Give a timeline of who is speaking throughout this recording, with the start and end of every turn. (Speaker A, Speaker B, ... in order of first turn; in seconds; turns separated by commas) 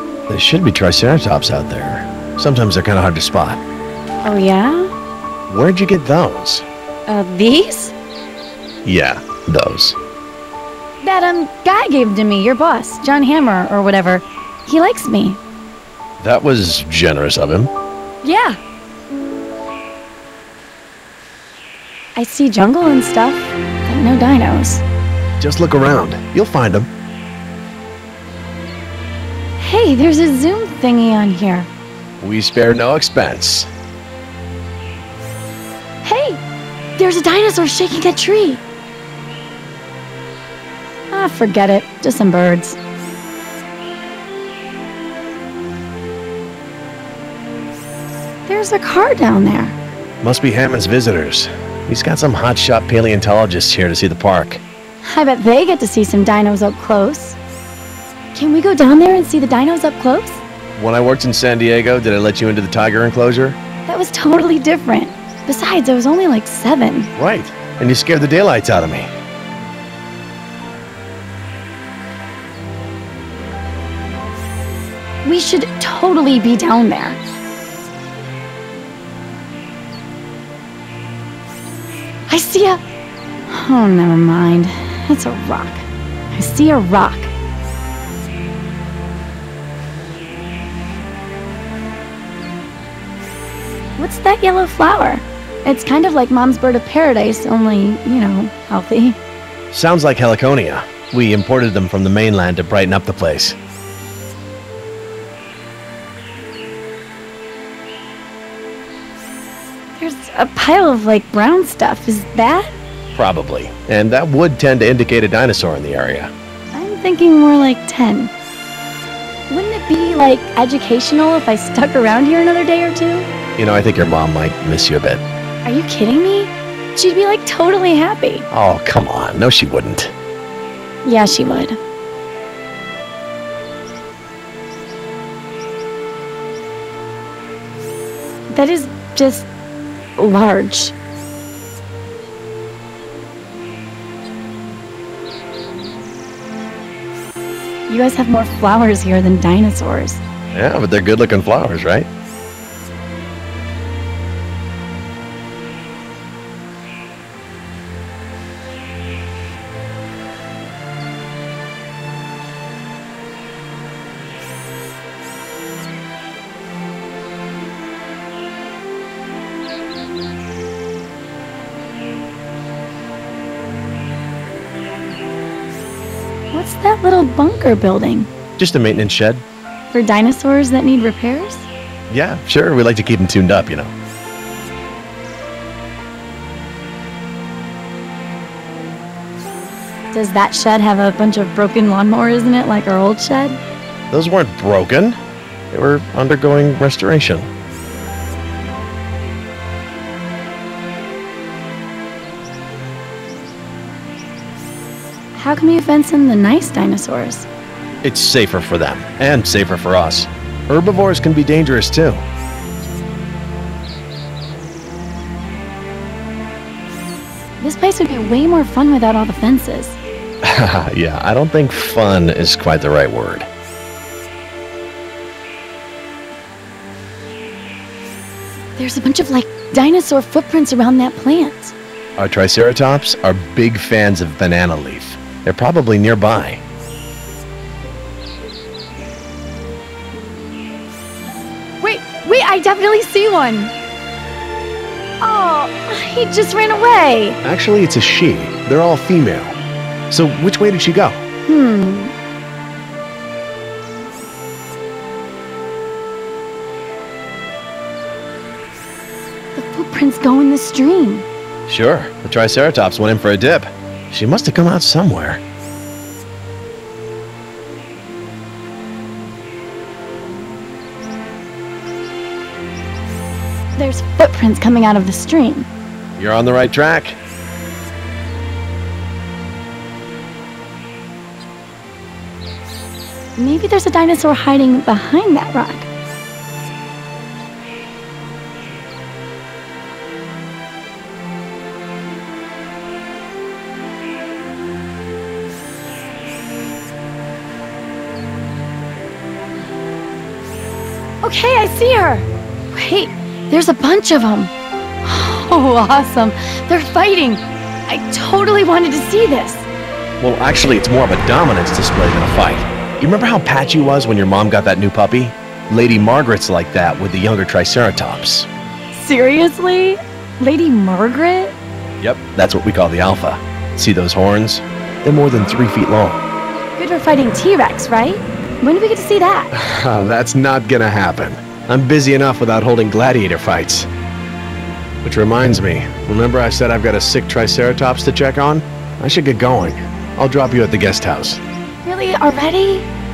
Speaker A: 0.3-3.6, Speaker B: 4.2-4.9, Speaker A: 5.5-6.7, Speaker B: 7.1-7.9, Speaker A: 8.8-10.0, Speaker B: 11.0-15.4, Speaker A: 16.2-17.7, Speaker B: 18.2-18.6, Speaker B: 22.2-24.8, Speaker A: 25.4-26.9, Speaker B: 29.6-31.7, Speaker A: 32.2-33.7, Speaker B: 36.0-36.4, Speaker B: 37.0-38.6, Speaker B: 41.1-42.8, Speaker B: 48.5-49.8, Speaker A: 50.2-54.6, Speaker B: 55.0-57.4, Speaker B: 58.3-60.4, Speaker A: 60.8-63.6, Speaker B: 63.9-67.1, Speaker A: 67.2-69.1, Speaker B: 75.2-77.2, Speaker B: 82.3-82.8, Speaker B: 83.5-87.3, Speaker B: 94.0-99.2, Speaker A: 99.7-103.6, Speaker B: 110.0-112.7, Speaker A: 113.1-116.3, Speaker B: 116.7-118.3, Speaker B: 119.5-123.3, Speaker A: 123.6-125.2, Speaker B: 125.7-128.5, Speaker A: 128.5-130.1, Speaker B: 131.0-131.8, Speaker B: 138.5-139.5, Speaker B: 140.2-140.9, Speaker B: 147.9-150.2, Speaker A: 150.5-152.1, Speaker B: 176.5-178.3, Speaker A: 178.6-179.4, Speaker B: 179.9-181.7, Speaker A: 182.1-183.9, Speaker B: 190.1-193.6, Speaker A: 194.1-195.2, Speaker A: 195.7-197.5, Speaker B: 205.4-207.5, Speaker A: 208.0-212.2, Speaker B: 217.6-220.0, Speaker A: 220.4-223.5, Speaker B: 228.8-231.8, Speaker A: 232.2-236.6, Speaker B: 241.8-243.7, Speaker B: 245.2-247.4, Speaker A: 247.4-249.6, Speaker A: 250.1-251.2, Speaker B: 251.5-252.2, Speaker B: 259.6-261.3, Speaker A: 261.7-265.4, Speaker B: 273.8-275.7, Speaker A: 276.2-277.2, Speaker B: 283.4-285.9, Speaker B: 301.2-304.5, Speaker B: 305.0-309.7, Speaker A: 310.2-318.5, Speaker B: 318.9-321.6, Speaker A: 322.0-326.2, Speaker B: 326.8-329.5, Speaker A: 329.5-333.9, Speaker A: 335.0-341.4, Speaker B: 341.8-342.9